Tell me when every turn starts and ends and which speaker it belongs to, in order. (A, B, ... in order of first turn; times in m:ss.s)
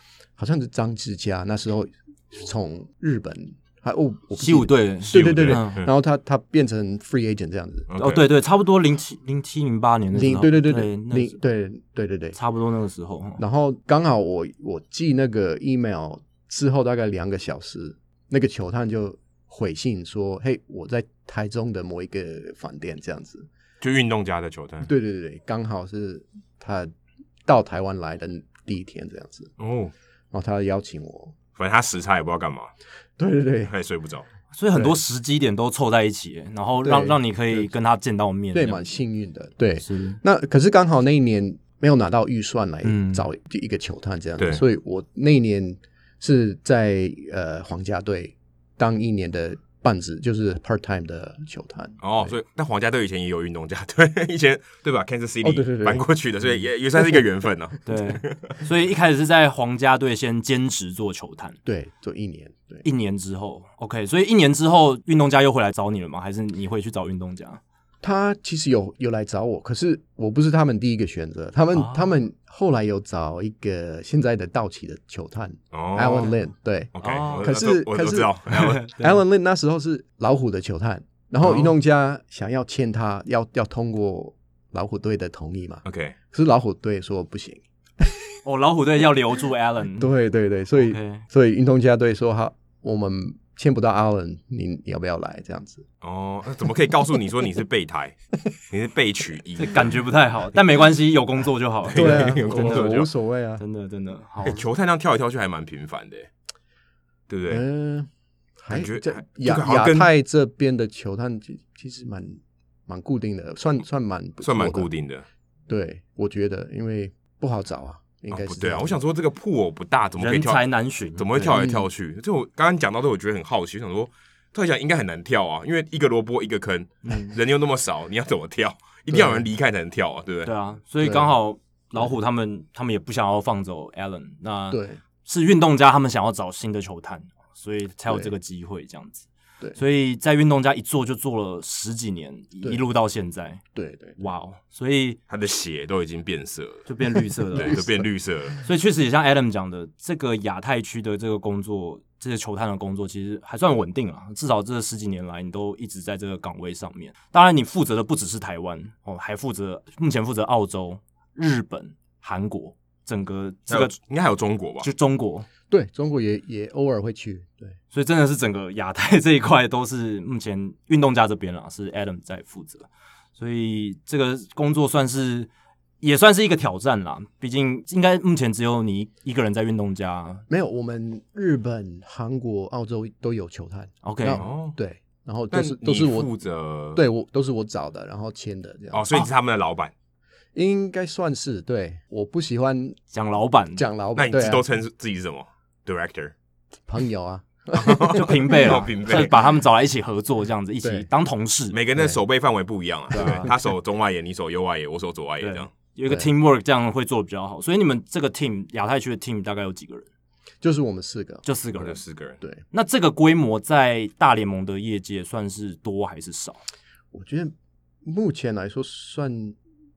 0:00.4-0:07.9 A
0:04.4-0:05.8 B
0:05.1-0:05.9 C
0:07.9-0:08.3 C
0:08.0-0:11.4 B
0:10.1-0:12.4 A
0:12.4-0:13.4 B
0:13.4-0:23.5 A
0:23.8-0:24.9 C
0:24.8-0:26.9 A
0:27.4-0:29.5 A
0:29.6-0:29.9 C
0:30.3-0:31.4 A
0:31.6-0:32.7 C
0:33.2-0:33.7 A
0:33.7-0:34.3 C
0:34.5-0:38.8 B
0:36.8-0:37.7 A
0:38.5-0:52.3 A
0:39.8-0:40.2 B
0:42.8-0:43.3 B
0:52.0-0:58.6 C
0:55.4-0:56.1 A
0:57.9-1:01.6 B
1:01.6-1:02.8 A
1:02.8-1:07.6 B
1:08.0-1:18.3 A
1:11.7-1:12.1 B
1:15.7-1:16.3 C
1:17.0-1:18.8 C
1:17.0-1:17.6 B
1:18.5-1:19.2 B
1:18.9-1:28.1 A
1:25.8-1:26.2 C
1:28.4-1:30.1 B
1:30.0-1:35.8 A
1:30.8-1:31.2 B
1:36.0-1:38.2 C
1:38.7-1:40.0 C
1:39.6-1:43.0 B
1:41.8-1:43.1 C
1:42.0-1:43.6 A
1:43.6-1:44.6 B
1:44.4-1:46.3 C
1:47.3-1:47.6 C
1:47.5-1:54.9 A
1:48.7-1:50.1 C
1:54.4-1:55.2 C
1:55.7-1:59.0 A
1:58.3-2:10.5 C
2:00.2-2:01.6 B
2:01.5-2:01.9 A
2:07.1-2:07.3 B
2:09.1-2:09.5 A
2:10.4-2:23.6 B
2:11.0-2:11.3 A
2:14.7-2:15.0 A
2:23.8-2:24.2 A
2:24.2-2:25.2 B
2:25.3-2:26.9 C
2:26.9-2:27.8 B
2:27.5-2:28.6 C
2:27.6-2:28.0 A
2:28.6-2:44.0 B
2:43.7-2:44.9 C
2:44.8-2:45.5 B
2:45.7-2:47.8 A
2:47.9-2:55.5 B
2:56.0-3:00.4 B
3:00.5-3:06.3 A
3:04.0-3:04.4 B
3:04.3-3:04.8 C
3:05.5-3:07.0 C
3:07.0-3:09.2 A
3:08.9-3:09.9 C
3:10.6-3:13.0 A
3:13.1-3:13.8 B
3:13.8-3:14.6 A
3:14.2-3:16.3 C
3:16.9-3:18.9 A
3:17.7-3:19.4 C
3:18.1-3:21.8 B
3:20.8-3:21.1 A
3:21.7-3:25.7 C
3:23.1-3:23.5 B
3:23.2-3:23.5 A
3:25.4-3:30.1 B
3:30.6-3:31.4 A
3:31.4-3:32.0 B
3:31.8-3:32.4 C
3:32.7-3:36.6 B
3:37.1-3:37.5 A
3:38.0-3:39.6 A